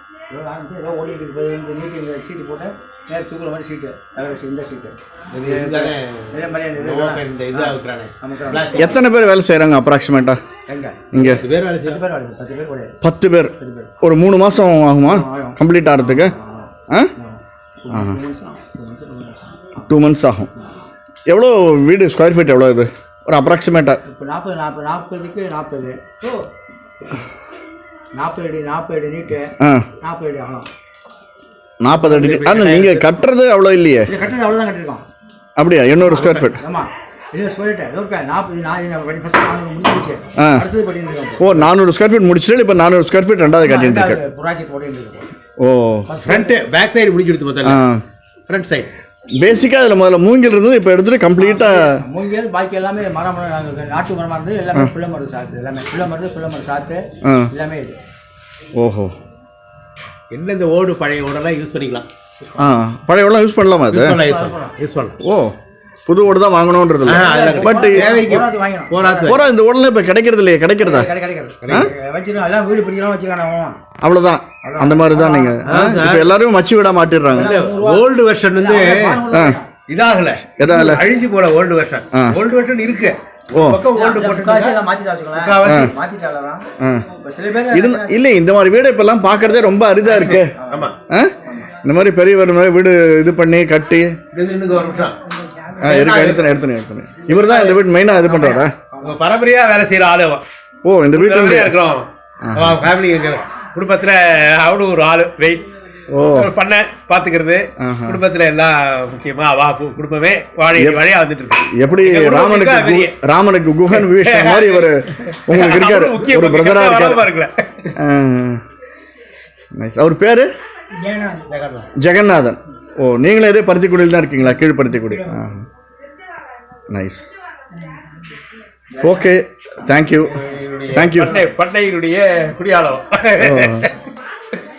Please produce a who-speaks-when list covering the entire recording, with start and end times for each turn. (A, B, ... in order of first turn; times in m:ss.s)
0:00.3-0:08.9 A
0:05.3-0:09.0 B
0:08.7-0:10.4 C
0:10.7-0:13.0 A
0:11.1-0:11.4 C
0:11.1-0:12.0 B
0:13.0-0:16.3 C
0:13.6-0:13.9 A
0:15.0-0:19.8 A
0:17.9-0:18.2 C
0:19.9-0:20.5 C
0:21.3-0:24.0 C
0:24.0-0:26.4 A
0:28.1-0:30.7 A
0:29.6-0:29.9 C
0:31.8-0:34.1 C
0:32.0-0:33.1 B
0:34.1-0:35.0 A
0:35.6-0:36.6 C
0:36.0-0:41.7 A
0:40.4-0:40.6 C
0:41.4-0:44.2 C
0:43.6-0:45.3 A
0:45.6-0:46.1 C
0:46.1-0:46.6 A
0:46.2-0:47.8 B
0:47.6-0:48.0 C
0:48.5-0:48.9 B
0:49.4-0:52.0 C
0:51.4-0:58.0 A
0:57.2-0:57.5 C
0:58.8-0:59.1 C
1:00.3-1:02.0 B
1:02.6-1:04.2 C
1:03.9-1:05.2 B
1:04.2-1:04.7 A
1:05.2-1:05.5 C
1:06.1-1:08.2 C
1:07.0-1:09.4 B
1:07.1-1:09.4 A
1:09.2-1:11.1 C
1:10.8-1:13.8 A
1:11.6-1:11.9 B
1:14.0-1:17.6 C
1:14.6-1:15.6 A
1:15.6-1:16.3 B
1:17.3-1:19.7 A
1:17.4-1:19.2 B
1:19.3-1:19.6 C
1:19.9-1:24.8 B
1:20.6-1:21.0 C
1:23.5-1:23.8 C
1:23.9-1:26.6 A
1:25.3-1:25.9 B
1:25.6-1:25.9 C
1:26.8-1:27.0 C
1:27.2-1:28.2 A
1:27.7-1:30.5 C
1:30.0-1:30.9 A
1:30.1-1:30.9 B
1:31.1-1:34.2 C
1:31.4-1:31.7 A
1:34.3-1:36.5 B
1:35.8-1:38.7 C
1:37.3-1:37.8 B
1:37.3-1:39.2 A
1:39.0-1:40.4 B
1:40.8-1:41.7 C
1:41.1-1:53.1 B
1:42.4-1:42.8 C
1:46.1-1:46.5 C
1:47.8-1:48.2 C
1:50.7-1:51.0 C
1:51.7-1:57.2 C
1:53.9-1:57.9 B
1:58.0-1:58.6 C
1:59.8-2:00.5 C
2:00.9-2:01.5 A
2:01.5-2:01.9 B
2:01.9-2:05.6 C
2:04.8-2:05.5 A
2:06.9-2:07.2 C
2:08.9-2:09.3 A
2:09.0-2:10.4 C
2:10.2-2:13.9 B
2:10.9-2:11.5 C
2:13.4-2:13.9 C